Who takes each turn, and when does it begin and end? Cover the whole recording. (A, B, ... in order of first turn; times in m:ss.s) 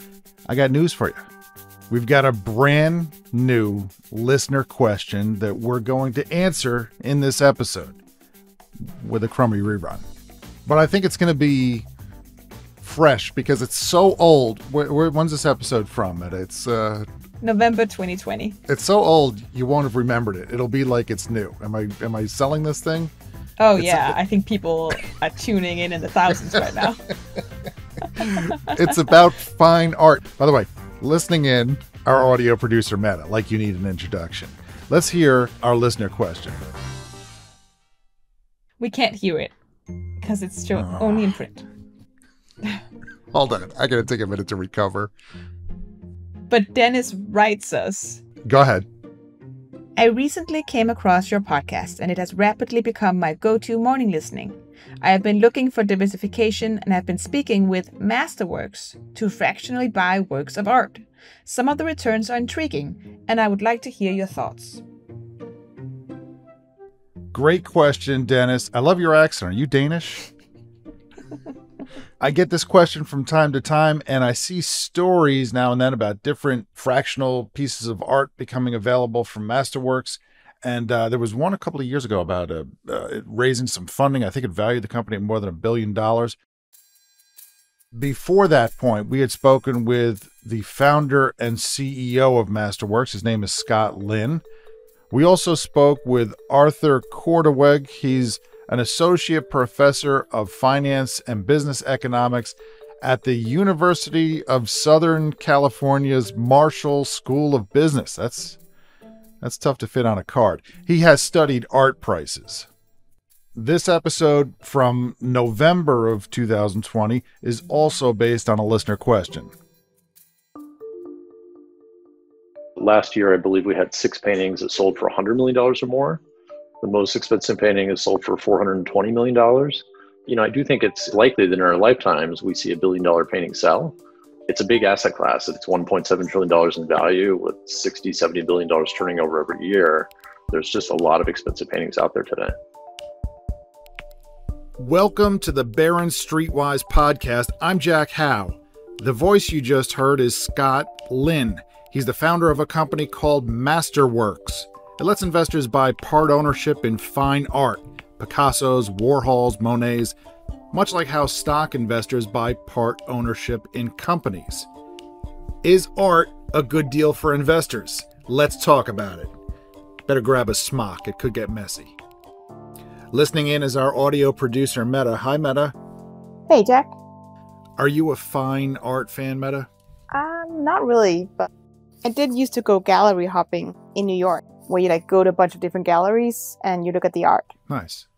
0:00.5-0:01.2 A
0:01.9-0:08.0 A
0:08.8-0:10.0 A
0:10.6-0:11.8 A
0:12.8-0:17.1 A
0:17.4-0:18.6 B
0:18.7-0:23.1 A
0:23.6-0:27.0 B
0:23.8-0:24.2 A
0:28.1-0:36.6 A
0:28.2-0:28.6 B
0:38.8-0:39.5 B
0:40.2-0:41.6 B
0:40.7-0:41.3 A
0:43.3-0:45.1 A
0:46.5-0:48.2 B
0:48.4-0:48.9 A
0:50.0-1:04.8 B
1:07.3-1:10.3 A
1:12.2-1:26.4 A
1:27.9-1:34.4 A
1:35.1-1:48.6 A
1:49.4-1:52.7 A
1:53.5-1:59.5 A
2:02.8-2:06.2 C
2:06.8-2:14.0 C
2:14.5-2:22.6 C
2:24.8-2:40.2 A
2:40.7-2:44.7 A
2:45.6-2:49.3 A
2:50.1-2:52.0 A
2:53.1-2:55.8 A
2:56.5-2:56.9 D
2:57.8-2:59.7 A
3:00.1-3:01.5 D
3:02.0-3:07.5 D
3:07.7-3:08.1 A